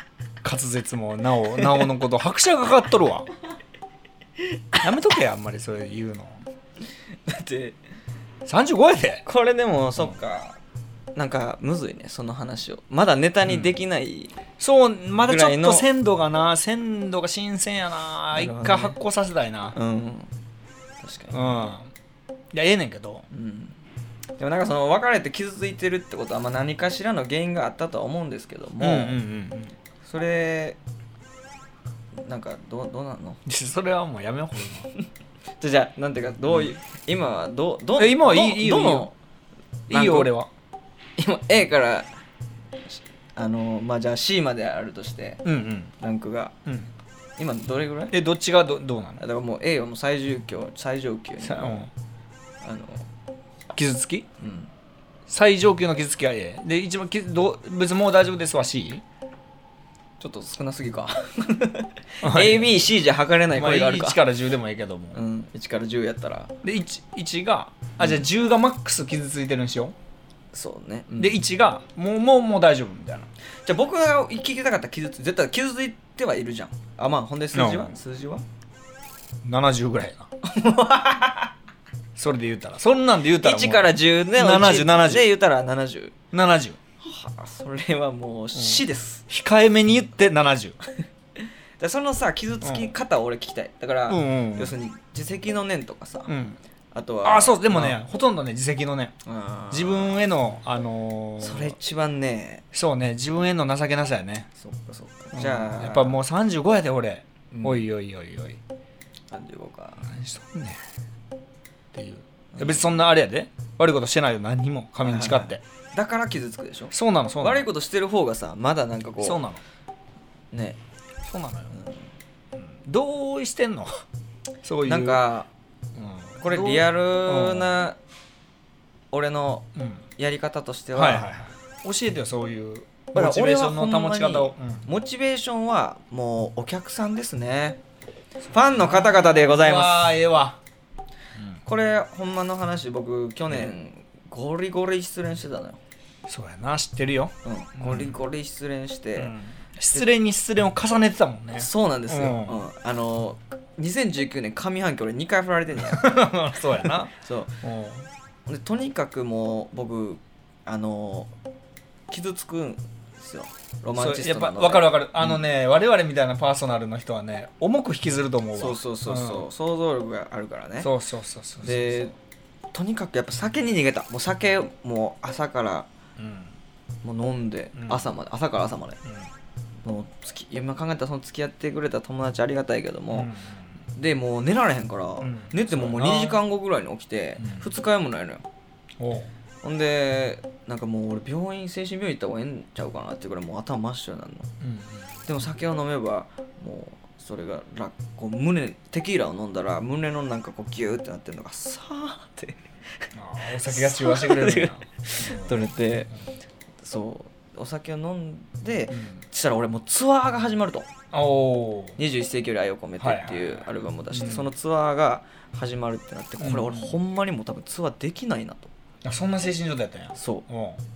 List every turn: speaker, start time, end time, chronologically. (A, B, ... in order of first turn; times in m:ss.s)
0:00.4-0:03.3 A
0:04.8-0:06.4 A
0:07.2-0:07.8 B
0:08.4-0:09.2 A
0:09.2-0:10.6 B
0:11.1-0:14.3 B
0:13.4-0:13.7 A
0:14.6-0:19.8 A
0:15.2-0:15.9 B
0:18.3-0:19.0 B
0:19.8-0:20.3 B
0:21.0-0:21.6 B
0:21.3-0:21.9 A
0:22.5-0:23.2 A
0:23.3-0:23.8 B
0:24.4-0:29.2 B
0:28.8-0:29.7 A
0:30.0-0:30.8 B
0:32.2-0:33.4 B
0:33.4-0:34.9 A
0:35.6-0:39.1 B
0:38.0-0:39.1 A
0:39.9-0:40.5 A
0:39.9-0:40.3 B
0:41.2-0:42.1 B
0:42.9-0:45.4 B
0:45.4-0:45.9 A
0:46.0-0:46.5 B
0:47.4-0:48.1 B
0:48.1-0:49.2 A
0:49.2-0:51.9 B
0:51.4-0:51.9 A
0:52.6-0:53.1 B
0:53.7-0:54.3 A
0:54.4-0:54.7 B
0:55.3-0:59.0 A
1:00.2-1:04.2 B
1:02.2-1:02.7 A
1:03.5-1:05.2 A
1:05.1-1:06.5 B
1:06.6-1:09.9 A
1:10.5-1:11.4 B
1:11.2-1:13.3 A
1:13.6-1:18.4 B
1:17.5-1:17.9 A
1:19.4-1:20.3 A
1:20.4-1:21.5 B
1:22.2-1:25.3 A
1:23.4-1:26.1 B
1:26.3-1:26.8 A
1:27.0-1:29.2 B
1:28.5-1:30.8 A
1:31.8-1:36.3 B
1:32.6-1:32.9 A
1:34.1-1:34.8 A
1:36.3-1:36.6 A
1:36.9-1:38.0 B
1:37.2-1:39.1 A
1:39.2-1:40.2 B
1:39.7-1:41.8 A
1:41.4-1:42.6 B
1:42.7-1:44.5 A
1:44.6-1:46.2 B
1:45.3-1:48.6 A
1:47.5-1:47.8 B
1:49.3-1:50.1 B
1:50.0-1:50.8 A
1:51.9-1:55.6 A
1:52.5-1:52.9 B
1:55.0-1:59.4 B
1:56.9-1:57.7 A
1:59.2-1:59.6 A
2:00.5-2:00.8 B
2:01.2-2:01.8 A
2:01.7-2:02.0 B
2:02.6-2:04.0 A
2:04.6-2:05.2 A
2:04.8-2:05.5 B
2:06.0-2:07.8 A
2:06.4-2:08.0 B
2:09.1-2:11.3 B
2:09.8-2:10.0 A
2:11.0-2:14.8 A
2:13.1-2:17.8 B
2:18.5-2:20.1 B
2:18.6-2:20.6 A
2:21.6-2:25.8 B
2:26.3-2:28.2 A
2:27.4-2:29.3 B
2:29.2-2:32.6 A
2:31.5-2:36.3 B
2:35.8-2:38.1 A
2:37.1-2:37.6 B
2:38.5-2:41.3 B
2:42.1-2:45.4 B
2:44.0-2:49.5 A
2:48.5-2:50.9 B
2:50.8-2:52.1 A
2:51.6-2:52.1 B
2:52.7-2:55.9 B
2:56.2-2:56.5 A
2:57.0-2:59.0 B
2:57.8-2:58.0 A
2:59.8-3:03.3 B
3:03.1-3:03.7 A
3:04.0-3:08.4 B
3:05.2-3:06.4 A
3:07.4-3:07.6 A
3:09.0-3:09.3 A
3:09.6-3:14.5 B
3:14.6-3:15.0 A
3:15.2-3:26.1 B
3:23.1-3:25.7 A
3:26.8-3:30.9 B
3:28.9-3:29.2 A
3:31.1-3:32.0 A
3:32.0-3:38.7 B
3:33.0-3:34.5 A
3:36.4-3:36.9 A
3:39.0-3:40.8 A
3:40.2-3:40.5 B